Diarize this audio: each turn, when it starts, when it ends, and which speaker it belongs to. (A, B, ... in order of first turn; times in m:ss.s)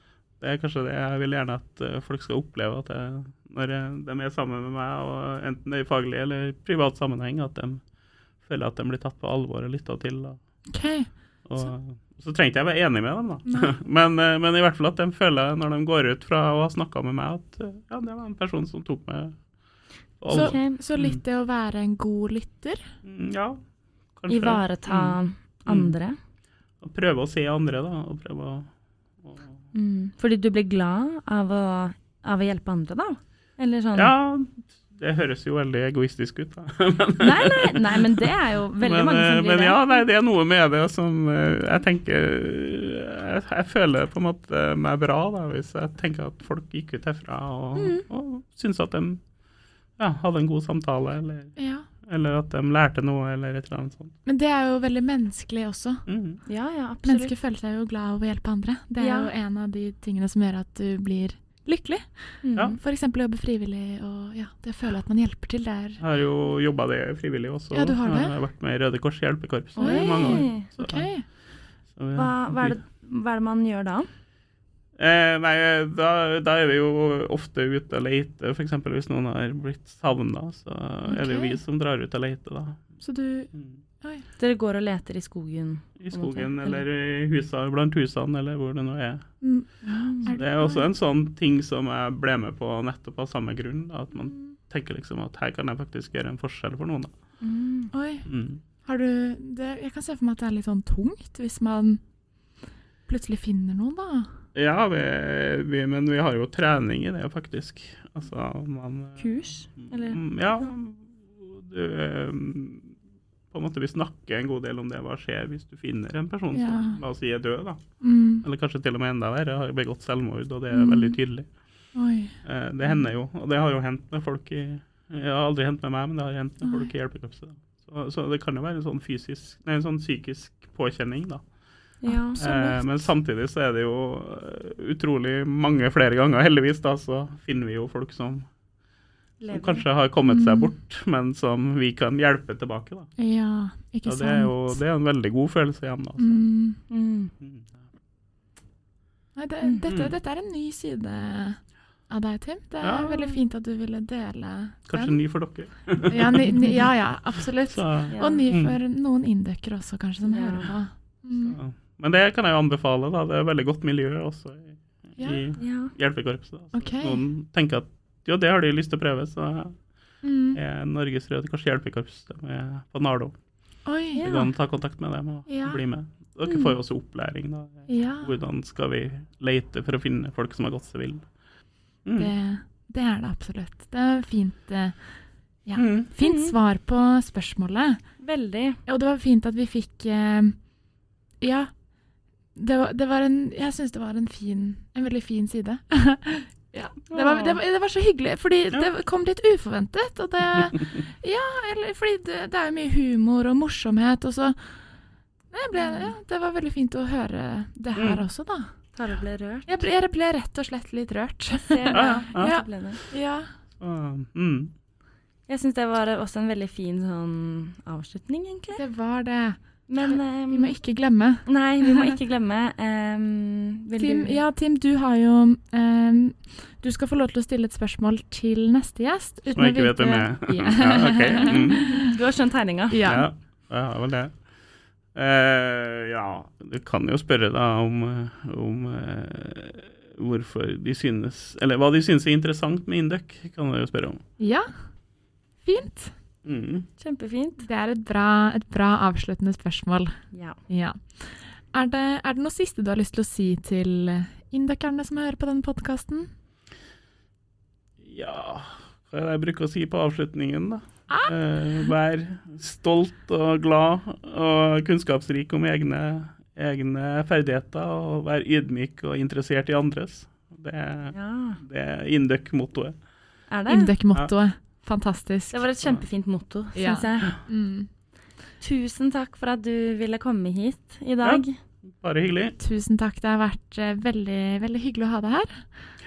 0:00.4-0:07.8 A
0:08.4-0:10.4 A
0:10.7-0:11.1 B
0:11.4-0:19.4 A
0:13.5-0:13.7 B
0:20.2-0:21.2 A
0:20.3-0:20.8 C
0:20.3-0:22.9 B
0:23.0-0:23.6 A
0:24.1-0:25.9 A
0:24.3-0:26.2 C
0:26.8-0:29.6 A
0:29.7-0:34.1 C
0:33.9-0:49.2 A
0:37.2-0:39.8 C
0:47.8-0:48.0 C
0:50.0-0:54.1 A
0:51.6-0:51.9 B
0:54.2-0:56.0 B
0:56.1-0:56.4 A
0:56.4-0:57.3 C
0:57.0-1:06.0 B
0:59.0-0:59.3 C
1:02.4-1:02.8 C
1:06.0-1:11.1 A
1:07.7-1:08.3 B
1:09.8-1:10.7 C
1:09.8-1:11.2 B
1:12.0-1:12.8 A
1:12.1-1:14.1 C
1:15.0-1:22.8 A
1:21.0-1:21.6 B
1:23.0-1:23.5 B
1:23.5-1:23.8 A
1:24.4-1:26.8 C
1:26.0-1:29.2 A
1:29.4-1:30.8 B
1:29.8-1:30.3 C
1:30.2-1:37.1 A
1:37.4-1:37.9 C
1:37.9-1:38.3 B
1:38.2-1:38.6 A
1:38.8-1:42.0 B
1:43.1-1:44.3 B
1:44.5-1:52.9 A
1:49.2-1:50.4 C
1:53.5-1:57.8 A
1:56.5-1:57.0 B
1:58.0-1:58.4 B
1:58.4-2:01.5 A
2:00.7-2:01.2 B
2:01.9-2:02.4 B
2:02.4-2:11.5 A
2:06.6-2:06.9 B
2:12.0-2:12.4 C
2:12.0-2:12.8 B
2:12.4-2:18.5 A
2:19.4-2:19.8 C
2:19.5-2:23.1 A
2:20.3-2:20.7 B
2:23.2-2:24.8 B
2:24.0-2:26.5 A
2:26.2-2:26.8 B
2:26.9-2:27.3 C
2:27.4-2:27.7 A
2:29.4-2:35.2 B
2:29.9-2:30.1 A
2:32.8-2:33.4 A
2:34.9-2:36.7 A
2:36.0-2:41.6 B
2:37.7-2:38.8 A
2:38.1-2:38.5 C
2:40.2-2:40.7 C
2:41.4-2:49.8 A
2:45.2-2:45.4 B
2:45.6-2:45.9 C
2:46.7-2:47.2 B
2:50.2-2:50.6 B
2:50.5-2:53.3 A
2:53.8-2:54.3 B
2:54.1-2:54.5 C
2:54.2-3:01.2 A
2:55.5-2:55.8 B
2:56.4-2:56.7 C
2:57.9-2:58.3 B
3:02.0-3:02.3 A
3:02.2-3:05.0 B
3:05.6-3:08.0 B
3:05.8-3:06.1 A
3:06.2-3:06.5 C
3:08.2-3:08.8 C
3:08.8-3:10.6 B
3:11.4-3:11.7 B
3:12.5-3:24.8 B
3:25.5-3:28.7 B
3:25.8-3:26.1 C
3:28.0-3:28.2 A
3:28.9-3:29.8 C
3:29.7-3:33.5 B
3:31.5-3:33.0 C
3:31.9-3:32.6 A
3:33.8-3:34.7 A
3:35.5-3:38.8 C
3:38.7-3:42.1 B
3:39.9-3:40.8 C
3:41.4-3:44.4 C
3:44.0-3:52.1 B
3:49.5-3:52.0 A
3:51.5-3:53.1 C
3:52.9-3:53.2 B
3:53.0-3:54.3 A
3:55.1-4:04.2 A
4:04.4-4:04.7 B
4:05.6-4:06.1 B
4:06.4-4:06.9 A
4:07.0-4:07.7 C
4:07.6-4:10.2 B
4:10.3-4:10.6 C
4:10.7-4:16.3 B
4:18.0-4:33.0 A
4:21.1-4:21.3 B
4:31.1-4:31.6 C
4:33.5-4:33.9 C
4:33.7-4:35.6 B
4:35.5-4:37.4 C
4:36.7-4:37.9 B
4:38.6-4:41.6 C
4:41.2-4:42.6 A
4:42.6-4:45.7 B